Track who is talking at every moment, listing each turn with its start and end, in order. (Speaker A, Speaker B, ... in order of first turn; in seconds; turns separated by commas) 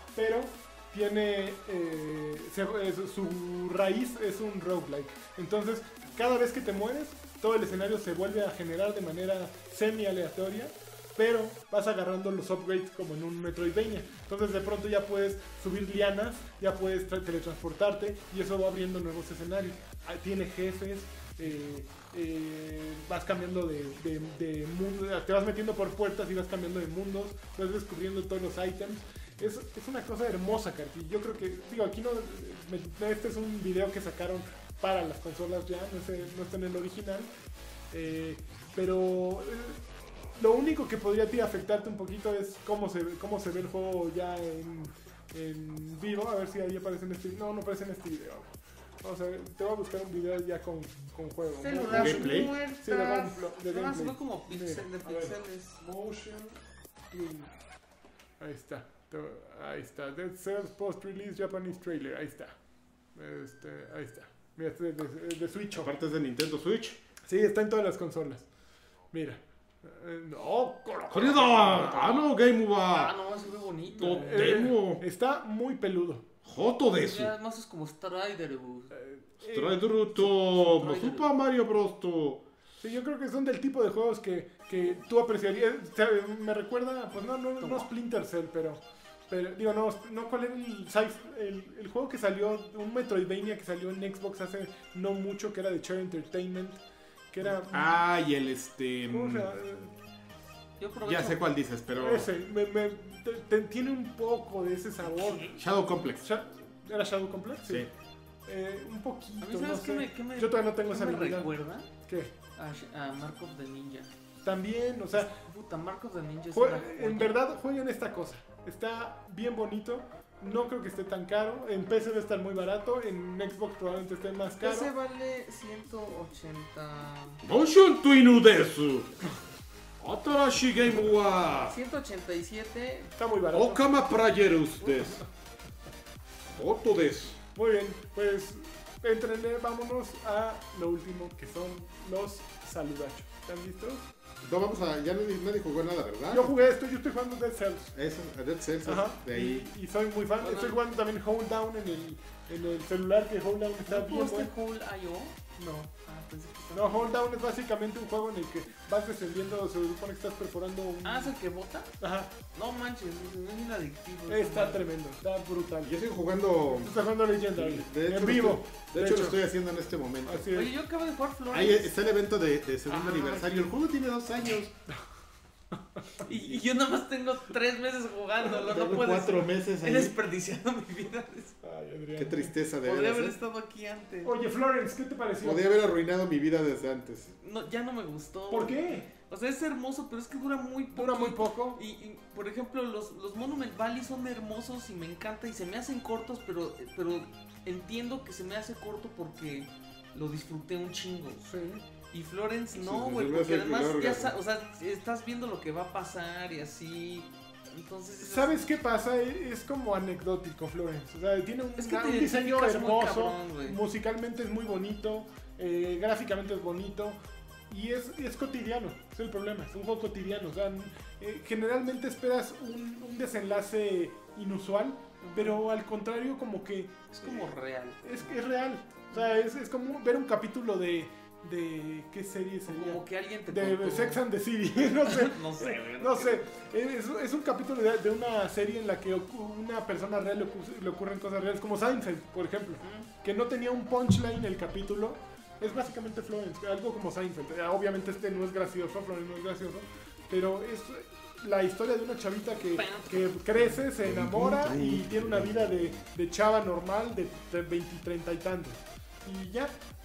Speaker A: 0.1-37.3, Speaker A: 37.9-39.8, Speaker A: 40.3-56.6, Speaker B: 51.6-55.8, Speaker C: 51.9-52.5, Speaker A: 57.1-57.5, Speaker A: 58.4-62.5, Speaker A: 63.1-65.9, Speaker C: 65.7-67.0, Speaker A: 67.2-68.5, Speaker A: 69.1-71.5, Speaker C: 71.1-73.2, Speaker B: 71.3-72.3, Speaker B: 72.9-74.7, Speaker C: 74.0-75.0, Speaker A: 74.0-76.2, Speaker C: 76.4-77.3, Speaker B: 76.9-78.9, Speaker A: 78.9-79.9, Speaker C: 79.4-82.4, Speaker B: 80.2-81.3, Speaker A: 82.8-98.0, Speaker B: 87.6-87.8, Speaker C: 97.4-99.5, Speaker A: 99.1-99.9, Speaker B: 100.8-101.5, Speaker C: 101.0-102.3, Speaker A: 102.0-105.5, Speaker B: 105.0-105.6, Speaker C: 105.5-106.2, Speaker A: 106.2-107.9, Speaker A: 108.5-112.3, Speaker B: 109.4-111.9, Speaker B: 112.5-114.1, Speaker A: 114.4-115.4, Speaker B: 115.1-117.4, Speaker A: 116.5-124.9, Speaker B: 124.6-127.4, Speaker C: 127.4-129.2, Speaker C: 130.0-131.8, Speaker B: 131.6-133.1, Speaker A: 133.2-133.9, Speaker C: 133.5-135.2, Speaker C: 136.5-137.4, Speaker A: 137.5-144.1, Speaker C: 144.4-146.5, Speaker A: 146.3-147.9, Speaker C: 147.9-149.7, Speaker A: 148.8-154.5, Speaker B: 150.4-150.8, Speaker B: 153.9-155.4, Speaker A: 155.6-155.9, Speaker B: 155.9-157.1, Speaker A: 156.7-161.3, Speaker B: 161.0-161.9, Speaker A: 162.0-162.3, Speaker B: 162.5-164.8, Speaker A: 164.3-165.9, Speaker C: 165.8-167.0, Speaker A: 166.7-169.4, Speaker C: 167.5-170.5, Speaker A: 170.2-170.7, Speaker B: 170.5-172.0, Speaker C: 171.5-174.7, Speaker B: 172.9-173.6, Speaker B: 176.2-181.5, Speaker C: 176.2-176.6, Speaker C: 178.6-180.2, Speaker A: 181.6-182.5, Speaker C: 182.2-183.4, Speaker B: 182.8-184.3, Speaker A: 184.2-185.7, Speaker C: 185.4-187.3, Speaker B: 187.4-201.5, Speaker A: 188.5-189.1, Speaker A: 190.9-191.8, Speaker A: 201.4-201.8, Speaker B: 202.1-208.7, Speaker C: 202.7-204.3, Speaker A: 208.2-259.7, Speaker B: 211.8-213.8, Speaker B: 225.2-225.6, Speaker B: 227.1-228.4, Speaker B: 232.7-234.2, Speaker B: 234.8-236.4, Speaker B: 242.8-243.1, Speaker B: 252.6-253.8, Speaker C: 254.0-256.0